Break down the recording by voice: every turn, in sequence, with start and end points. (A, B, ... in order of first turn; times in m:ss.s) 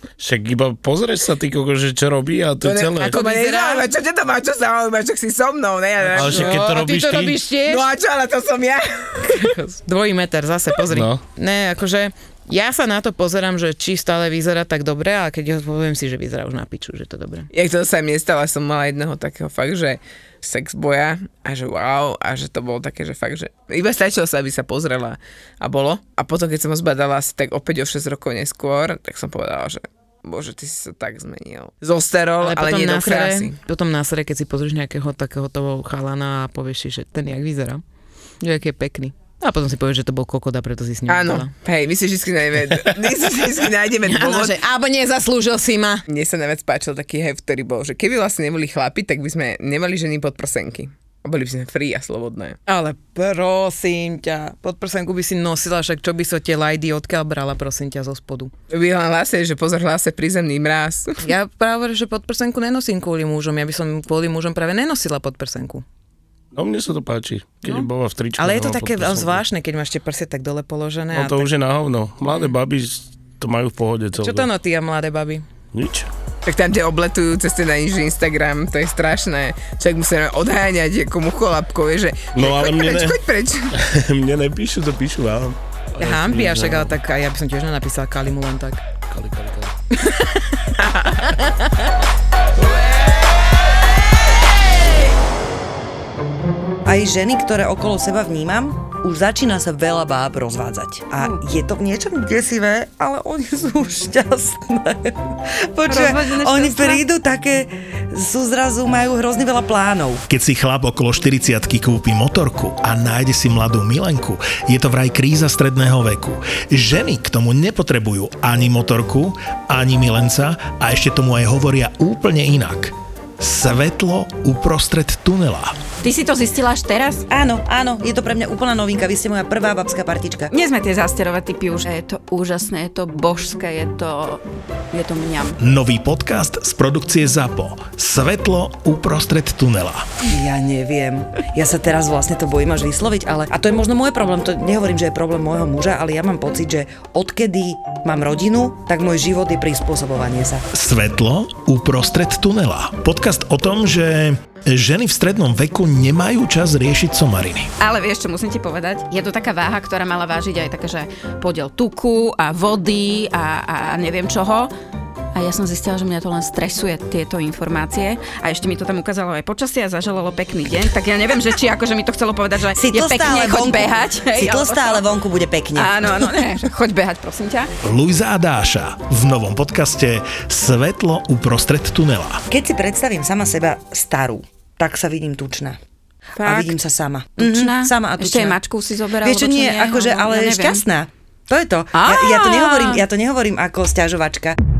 0:00.2-0:03.2 A
0:02.6-0:06.6 B
0:03.0-0:03.9 C
0:06.1-0:07.4 A
0:06.2-0:07.8 C
0:07.7-0:09.5 B
0:09.2-0:17.5 C
0:10.9-0:11.2 A
0:17.5-0:33.6 B
0:32.4-0:37.8 C
0:38.4-0:41.5 C
0:41.1-0:44.6 B
0:44.0-0:46.0 C
0:46.1-0:52.6 B
0:52.7-0:58.5 C
0:58.7-1:01.2 B
1:01.2-1:05.8 C
1:06.5-1:09.4 A
1:07.6-1:11.5 C
1:11.1-1:14.5 A
1:14.2-1:15.4 C
1:15.7-1:16.1 A
1:16.4-1:23.7 B
1:22.4-1:23.2 A
1:23.7-1:26.9 A
1:26.0-1:28.8 C
1:29.1-1:29.7 A
1:30.0-1:30.5 C
1:30.8-1:31.2 B
1:31.4-1:31.7 C
1:36.9-1:50.2 D
1:45.9-1:47.0 E
1:50.3-2:05.8 F
2:06.0-2:07.2 E
2:07.3-2:10.5 D
2:10.5-2:15.6 E
2:15.6-2:20.1 F
2:20.3-2:30.7 D
2:30.7-2:37.7 F
2:37.8-2:44.7 E
2:45.3-2:55.1 E
2:52.7-2:56.6 D
2:55.8-2:57.7 E
2:57.8-3:02.4 F
3:02.5-3:05.8 D
3:06.4-3:06.7 C
3:06.4-3:08.6 D
3:07.4-3:10.8 E
3:09.2-3:14.6 D
3:11.9-3:13.0 E